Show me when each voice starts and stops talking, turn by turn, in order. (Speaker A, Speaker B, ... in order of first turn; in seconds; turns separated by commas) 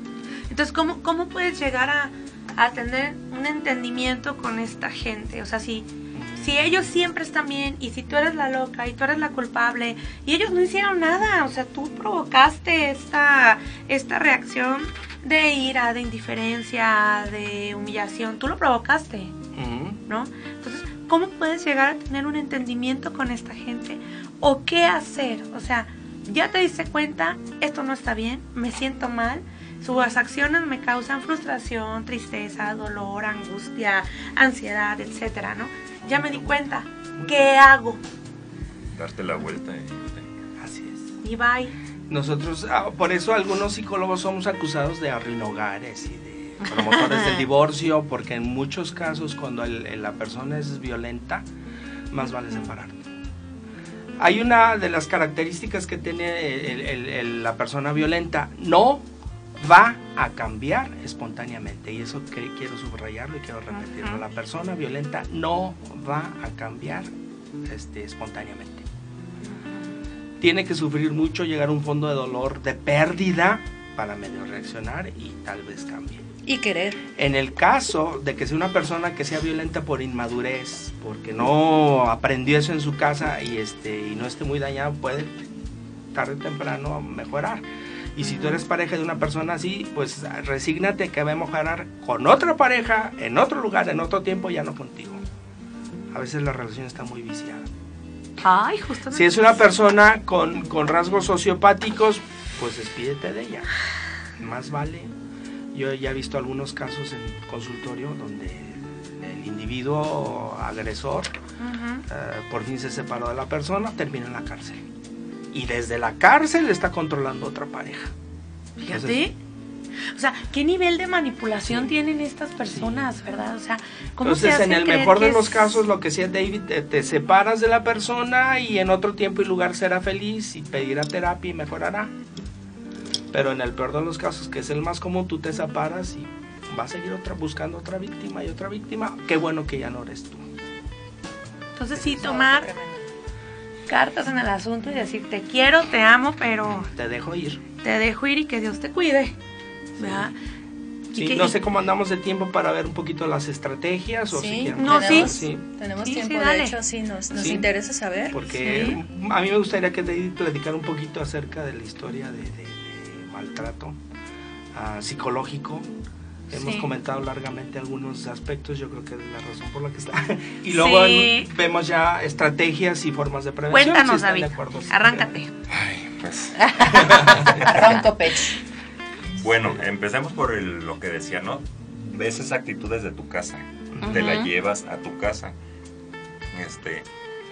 Speaker A: 0.5-19.3, Speaker B: 6.1-6.5, Speaker B: 19.6-20.0, Speaker A: 20.1-38.0, Speaker B: 36.1-36.4, Speaker B: 37.2-37.5, Speaker C: 38.9-40.3, Speaker B: 40.6-41.1, Speaker A: 41.2-41.8, Speaker B: 42.1-51.5, Speaker A: 46.6-47.4, Speaker B: 52.1-53.1, Speaker B: 54.2-59.1, Speaker B: 59.6-67.1, Speaker A: 63.7-64.2, Speaker B: 67.7-68.9, Speaker B: 70.4-76.2, Speaker D: 76.4-77.0, Speaker B: 77.2-85.5, Speaker B: 86.1-95.2, Speaker A: 88.2-88.6, Speaker B: 96.1-97.7, Speaker A: 98.4-99.6, Speaker B: 99.1-103.7, Speaker B: 104.4-105.2, Speaker B: 105.7-111.3, Speaker A: 111.6-112.0, Speaker B: 112.1-114.8, Speaker B: 115.5-118.1, Speaker B: 118.8-119.3, Speaker A: 118.8-119.4, Speaker A: 120.1-125.8, Speaker B: 121.6-121.9, Speaker B: 122.6-123.1, Speaker B: 124.2-132.1, Speaker B: 133.3-140.4, Speaker A: 141.8-142.7, Speaker D: 142.0-143.1, Speaker A: 143.9-146.9, Speaker B: 146.6-147.6, Speaker A: 147.8-149.4, Speaker A: 150.0-150.4, Speaker B: 150.0-150.3, Speaker A: 151.1-151.6, Speaker B: 151.2-155.6, Speaker D: 154.3-159.0, Speaker A: 154.8-155.4, Speaker A: 156.0-156.8, Speaker B: 157.3-157.7, Speaker B: 158.3-164.0, Speaker A: 158.6-159.0, Speaker B: 164.7-165.9, Speaker B: 166.5-175.3, Speaker A: 166.5-166.9, Speaker A: 170.7-171.5, Speaker A: 173.7-175.5, Speaker C: 175.7-178.0, Speaker A: 176.6-177.3, Speaker B: 176.9-177.6, Speaker D: 177.5-178.6, Speaker C: 179.3-185.5, Speaker B: 183.9-184.2, Speaker A: 184.0-184.5, Speaker C: 186.5-187.1